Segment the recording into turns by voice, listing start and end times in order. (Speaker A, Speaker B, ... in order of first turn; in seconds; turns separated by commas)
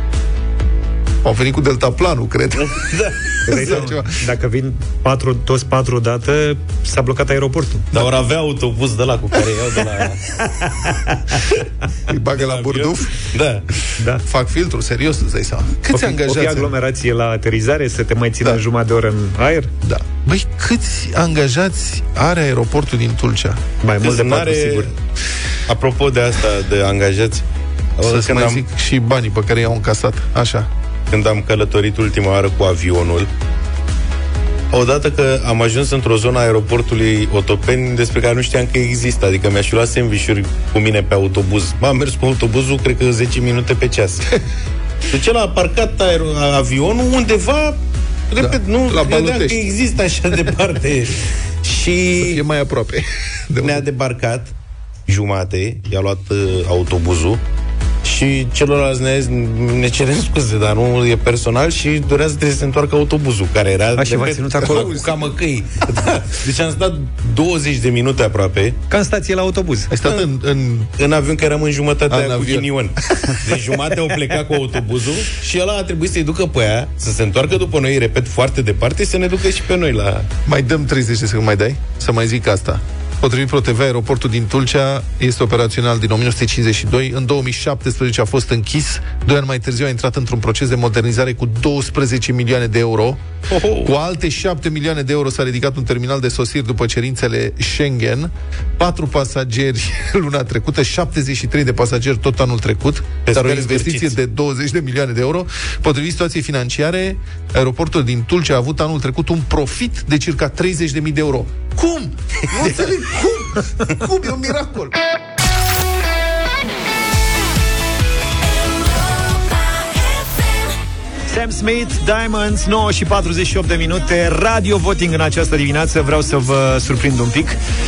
Speaker A: 1.2-2.8, Speaker B: 2.7-3.3, Speaker C: 3.5-8.0, Speaker A: 3.5-4.1, Speaker B: 7.9-10.9, Speaker A: 12.1-13.2, Speaker B: 12.3-13.6, Speaker A: 14.2-16.7, Speaker C: 15.9-19.7, Speaker A: 19.8-23.6, Speaker C: 23.8-24.9, Speaker B: 24.0-24.9, Speaker B: 25.7-27.4, Speaker B: 28.0-28.6, Speaker A: 28.0-30.7, Speaker B: 31.1-33.3, Speaker B: 34.7-44.3, Speaker B: 45.1-52.4, Speaker A: 48.4-49.7, Speaker A: 52.2-53.9, Speaker B: 53.6-54.5, Speaker B: 55.1-57.4, Speaker B: 58.0-68.8, Speaker C: 64.0-64.9, Speaker A: 64.6-65.3, Speaker C: 68.9-69.9, Speaker A: 69.9-70.9, Speaker B: 71.0-80.3, Speaker A: 72.1-73.1, Speaker A: 80.5-93.2, Speaker B: 93.5-93.9, Speaker A: 93.8-115.0, Speaker B: 103.2-104.1, Speaker C: 121.3-127.6